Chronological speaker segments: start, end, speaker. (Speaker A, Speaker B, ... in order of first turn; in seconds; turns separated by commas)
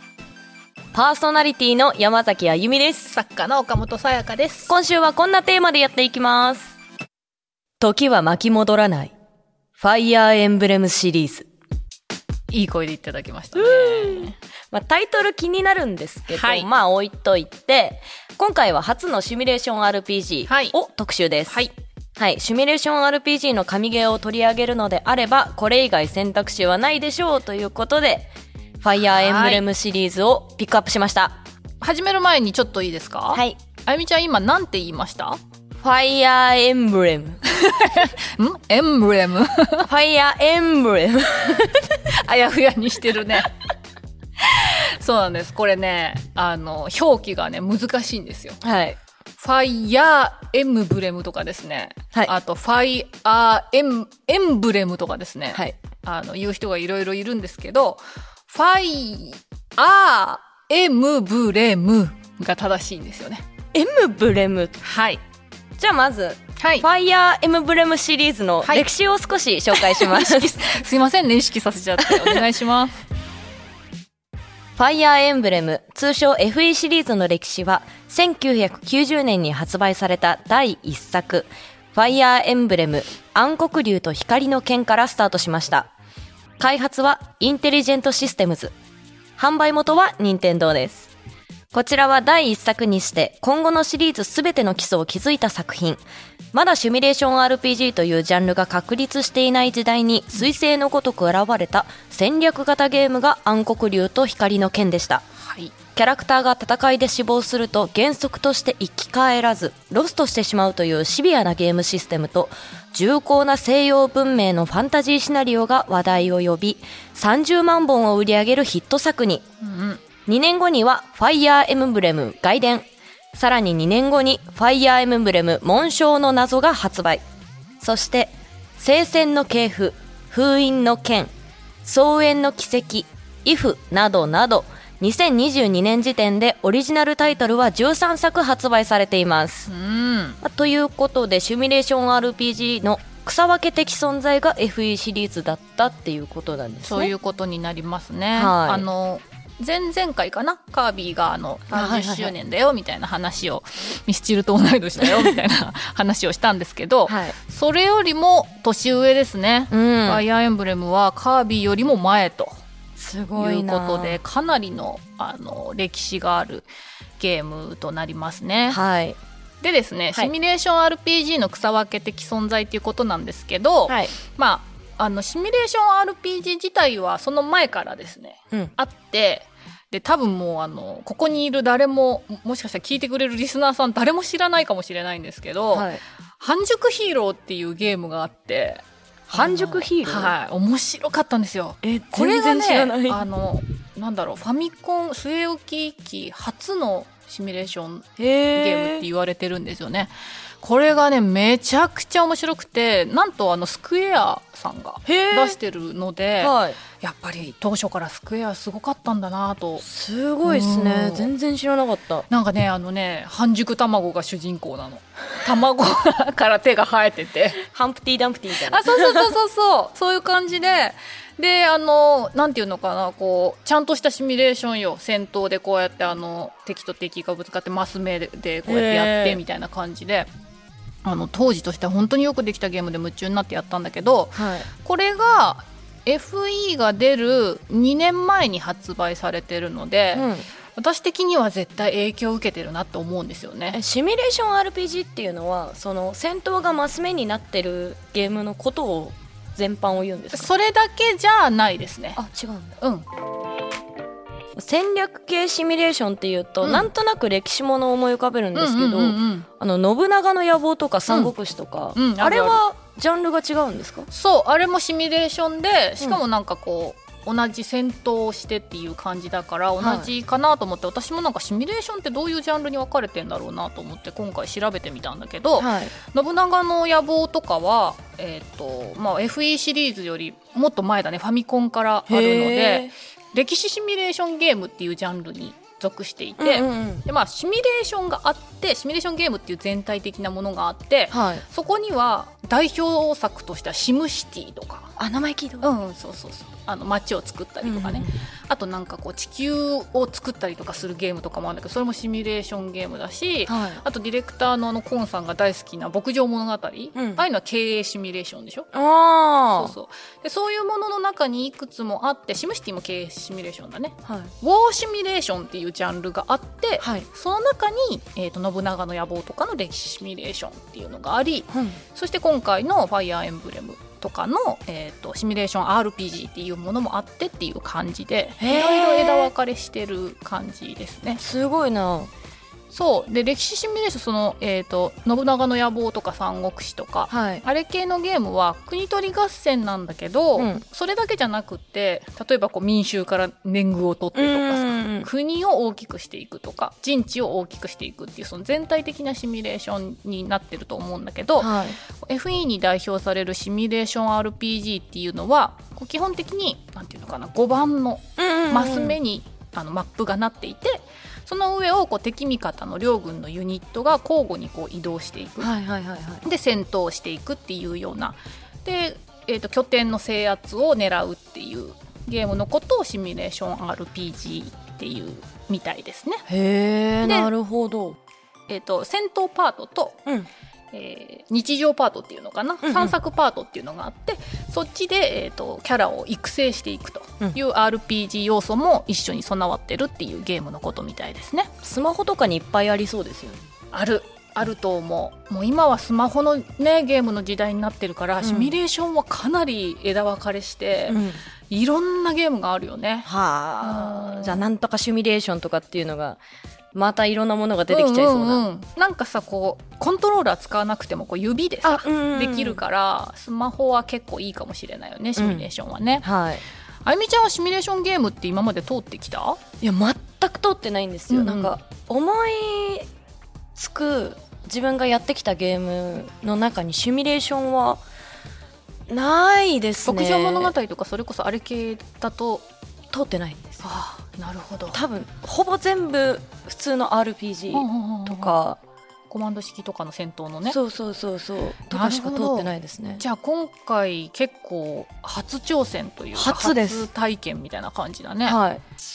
Speaker A: 0.9-3.2, Speaker B: 3.1-4.7, Speaker A: 4.7-6.8, Speaker A: 7.8-9.1, Speaker A: 9.8-11.5, Speaker B: 12.5-14.3, Speaker A: 13.5-21.6, Speaker B: 16.3-16.7, Speaker B: 20.5-20.7, Speaker B: 21.5-21.7, Speaker A: 22.1-28.3, Speaker A: 28.8-31.4, Speaker B: 29.0-29.6, Speaker B: 31.8-35.4, Speaker A: 33.3-33.6, Speaker A: 35.8-37.4, Speaker B: 37.5-39.9, Speaker A: 39.8-42.0, Speaker B: 42.1-43.5, Speaker B: 44.4-48.6, Speaker A: 48.6-49.0, Speaker B: 49.4-63.4, Speaker A: 63.7-64.8, Speaker B: 64.8-65.2, Speaker A: 65.8-70.5, Speaker B: 66.6-66.9, Speaker B: 69.7-73.0, Speaker A: 72.0-72.4, Speaker A: 74.8-85.9, Speaker A: 86.6-88.7, Speaker A: 89.4-91.1, Speaker A: 91.7-96.0, Speaker A: 96.5-105.2, Speaker B: 105.4-105.7, Speaker A: 105.9-119.4, Speaker B: 119.6-120.0, Speaker A: 120.2-127.2, Speaker A: 127.8-131.3, Speaker A: 131.8-139.7, Speaker B: 139.7-140.4, Speaker A: 140.4-147.1, Speaker B: 146.8-162.6, Speaker A: 148.3-148.8, Speaker A: 151.7-152.3, Speaker A: 157.1-157.4, Speaker A: 159.7-160.2, Speaker A: 163.0-164.2, Speaker B: 163.4-166.7, Speaker B: 167.2-168.8, Speaker A: 168.7-169.2, Speaker B: 169.6-185.9, Speaker A: 173.9-174.1, Speaker A: 185.7-186.0, Speaker B: 186.4-209.8, Speaker A: 189.3-190.3, Speaker A: 191.8-193.2, Speaker A: 198.2-199.0, Speaker A: 205.0-205.6, Speaker A: 206.4-206.8, Speaker A: 209.8-212.3, Speaker B: 210.4-211.3, Speaker B: 212.3-217.6, Speaker A: 217.6-219.3, Speaker B: 218.7-230.3, Speaker A: 228.7-229.4, Speaker B: 231.0-243.8, Speaker A: 234.3-234.7, Speaker A: 240.1-240.5, Speaker A: 243.7-250.5, Speaker B: 250.3-252.2, Speaker A: 252.1-252.8, Speaker B: 252.8-253.1, Speaker A: 254.5-264.1, Speaker B: 256.6-256.9, Speaker B: 258.5-259.5, Speaker B: 261.1-261.3, Speaker B: 261.9-262.6, Speaker B: 264.1-294.9, Speaker A: 269.8-270.1, Speaker A: 275.6-275.9, Speaker A: 282.1-282.9, Speaker A: 286.4-287.1, Speaker A: 291.1-291.4, Speaker A: 295.0-295.7, Speaker B: 295.6-308.7, Speaker A: 297.6-298.1, Speaker A: 303.5-303.8, Speaker A: 306.9-307.2, Speaker A: 308.7-309.7, Speaker B: 309.5-331.2, Speaker A: 314.0-314.3, Speaker A: 316.8-317.1, Speaker A: 321.5-321.8, Speaker A: 328.4-329.3, Speaker A: 331.2-332.1, Speaker B: 332.7-365.5, Speaker A: 337.1-337.4, Speaker A: 340.4-340.6, Speaker A: 344.1-345.1, Speaker A: 351.4-351.8, Speaker A: 358.2-359.0, Speaker A: 365.4-366.2, Speaker B: 366.2-376.2, Speaker A: 376.3-378.0, Speaker B: 377.0-377.3, Speaker B: 378.5-380.0, Speaker B: 380.7-391.5, Speaker A: 382.6-382.9, Speaker A: 391.6-393.5, Speaker B: 393.7-401.0, Speaker A: 398.2-398.5, Speaker A: 400.9-401.2, Speaker B: 401.5-403.1, Speaker A: 403.0-406.2, Speaker B: 403.6-404.4, Speaker A: 406.7-408.4, Speaker B: 407.7-416.0, Speaker A: 411.6-412.6, Speaker A: 415.2-415.5, Speaker A: 416.0-416.4, Speaker B: 416.8-419.4, Speaker A: 419.6-422.9, Speaker B: 421.1-421.6, Speaker A: 423.6-427.8, Speaker A: 428.9-430.5, Speaker B: 429.9-432.4, Speaker A: 432.9-433.6, Speaker B: 433.6-434.8, Speaker A: 434.7-438.6, Speaker B: 437.5-438.4, Speaker B: 439.1-440.6, Speaker A: 440.4-443.0, Speaker B: 441.7-448.4, Speaker A: 446.1-446.9, Speaker A: 448.2-448.6